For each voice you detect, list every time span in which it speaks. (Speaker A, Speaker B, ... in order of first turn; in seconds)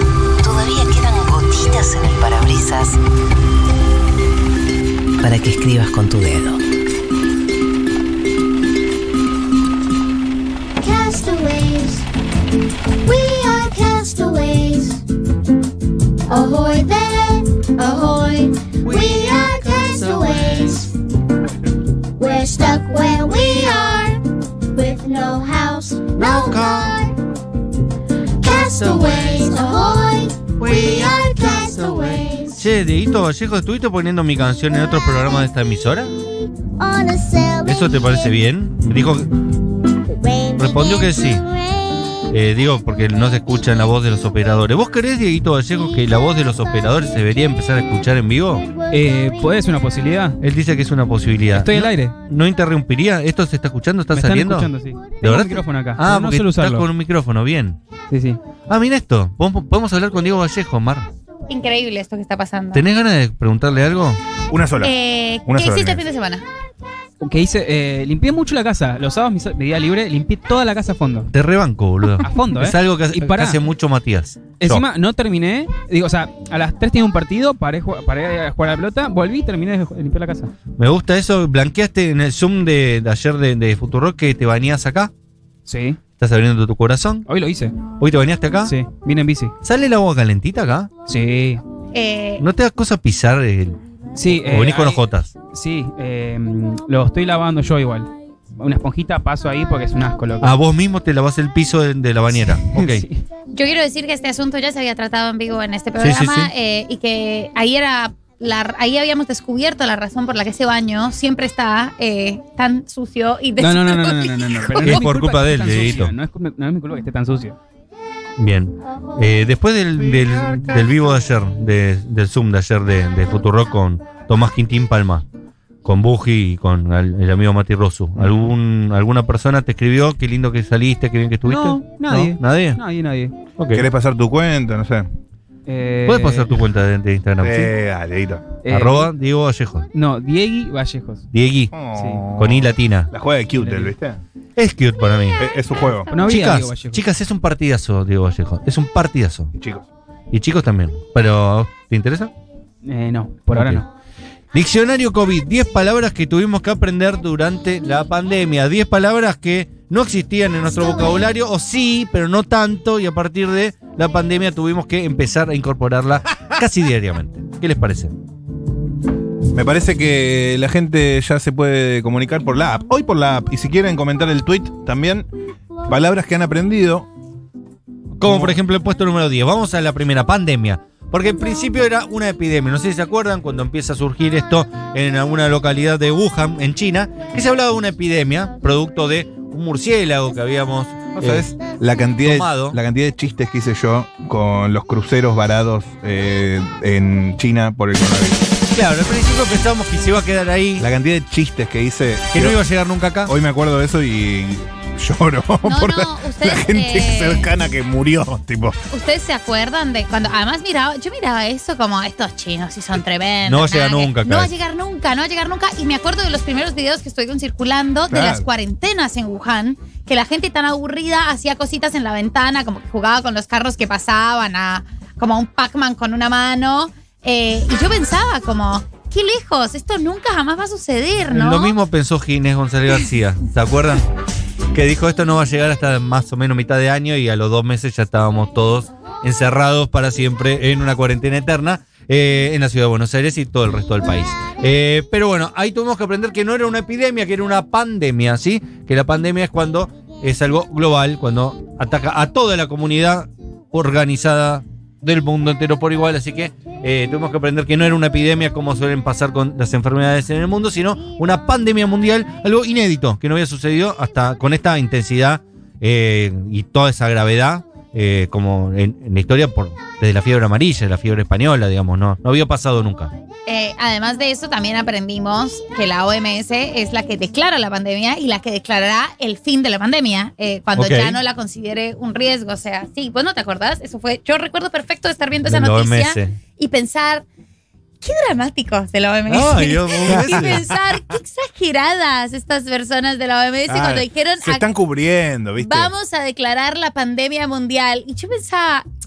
Speaker A: 0.4-3.0, 5.2-6.6
Speaker B: 10.8-12.1, 13.0-15.1, 16.3-21.0, 22.1-27.2, 28.4-32.7, 36.2-38.4, 40.0-42.3, 43.0-43.9, 45.7-47.2, 48.6-49.6
Speaker C: 18.8-20.1, 26.1-27.0, 30.6-36.1, 37.6-39.4, 40.5-41.4, 42.3-48.6, 50.4-54.7, 55.2-57.8, 58.7-61.1, 62.7-64.2, 71.3-74.8, 80.8-85.1, 86.2-87.2, 88.0-88.7, 89.6-90.9, 92.4-93.8, 94.3-95.3, 100.4-103.0, 106.0-106.5, 114.8-116.1, 118.4-125.2, 125.8-132.8, 133.6-133.8, 136.0-137.7, 138.7-139.9, 141.3-141.7, 142.3-143.1, 144.6-145.4, 146.2-149.5, 150.3-152.3, 153.5-153.8, 154.5-168.1, 178.2-191.5, 192.2-192.8, 198.7-200.9, 202.3-203.3, 213.4-214.5, 231.3-234.1, 234.7-273.1, 280.8-281.2, 285.4-286.3, 289.3-290.7
Speaker D: 48.9-50.4, 51.5-52.1, 54.1-56.9, 58.1-58.4, 67.2-71.3, 72.2-73.6, 74.6-80.5, 85.7-86.0, 87.3-87.8, 88.6-89.5, 91.1-91.6, 94.1-100.6, 102.6-103.2, 113.6-117.6, 131.4-133.3, 135.7-136.7, 138.6-139.1, 139.9-141.3, 141.9-142.2, 143.6-143.9, 146.1-147.0, 152.8-153.8
Speaker E: 61.5-62.8, 64.8-66.4, 91.9-92.4, 103.5-115.0, 205.6-207.5, 208.9-231.7, 273.5-287.2, 288.0-294.7, 295.6-298.9
Speaker F: 64.5-64.9, 65.4-66.0, 128.2-128.5, 133.7-135.1, 137.4-138.5, 141.7-144.2, 145.4-146.1, 149.5-149.8, 169.5-175.3, 175.9-177.1, 178.2-178.6, 191.2-198.5, 200.8-202.6, 203.2-208.8, 218.1-218.4, 290.1-290.6, 293.7-295.9